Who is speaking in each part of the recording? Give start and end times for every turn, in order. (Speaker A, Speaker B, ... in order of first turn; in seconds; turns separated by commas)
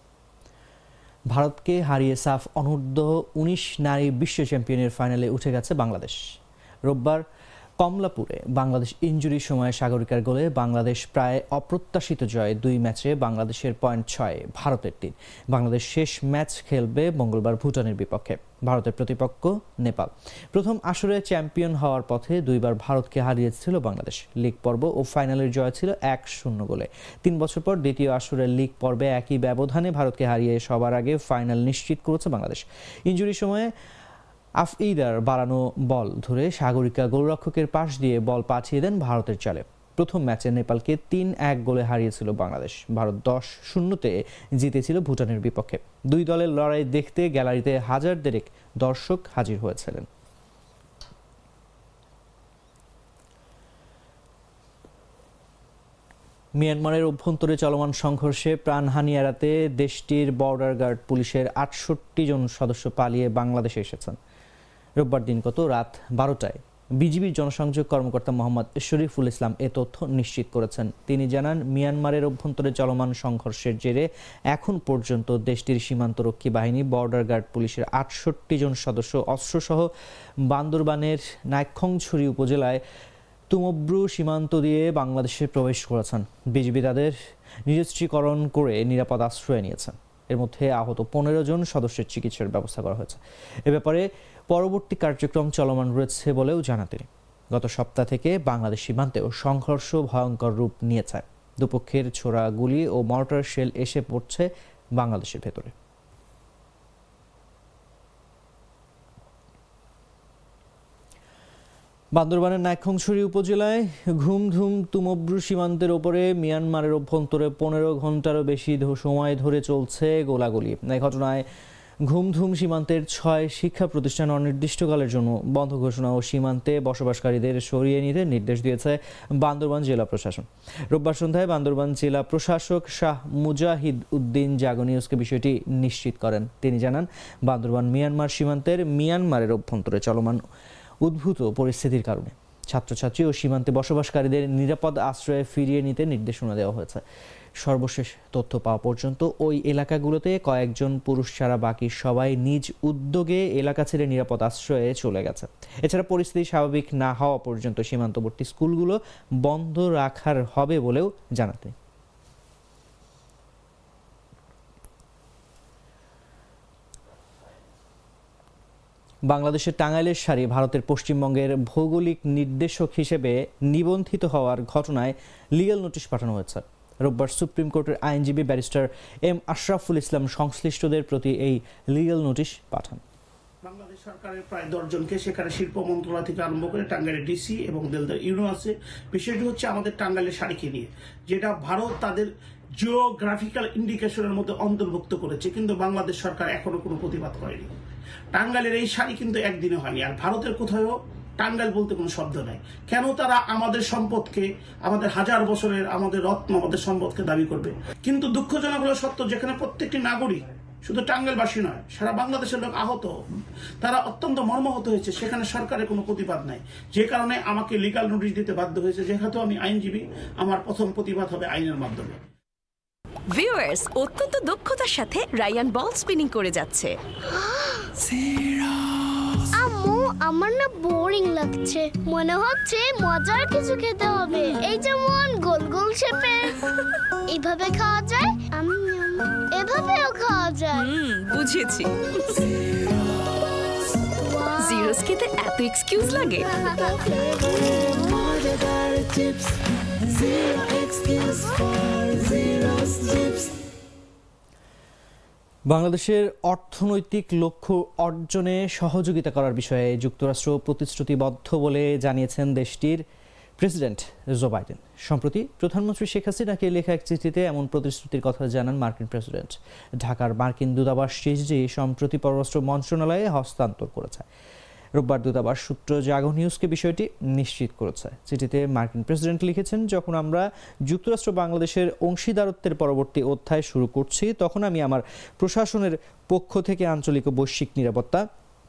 Speaker A: 1.3-6.2, Speaker A: 6.8-7.2, Speaker A: 7.8-33.7, Speaker A: 34.6-50.1, Speaker A: 56.5-64.2, Speaker A: 65.0-79.9, Speaker A: 80.5-82.8, Speaker A: 83.5-87.2, Speaker A: 87.7-105.7, Speaker A: 112.1-121.5, Speaker A: 122.0-140.4, Speaker A: 141.0-147.0, Speaker A: 147.6-161.7, Speaker A: 169.2-183.0, Speaker B: 183.6-197.7, Speaker B: 198.3-213.1, Speaker B: 213.8-222.2, Speaker C: 223.3-227.0, Speaker D: 227.3-227.9, Speaker C: 228.1-229.0, Speaker D: 229.5-240.9, Speaker C: 240.8-244.1, Speaker D: 244.1-245.0, Speaker C: 244.6-246.5, Speaker D: 246.5-248.4, Speaker C: 248.5-253.1, Speaker A: 255.7-263.0, Speaker A: 263.6-274.2, Speaker A: 274.9-288.2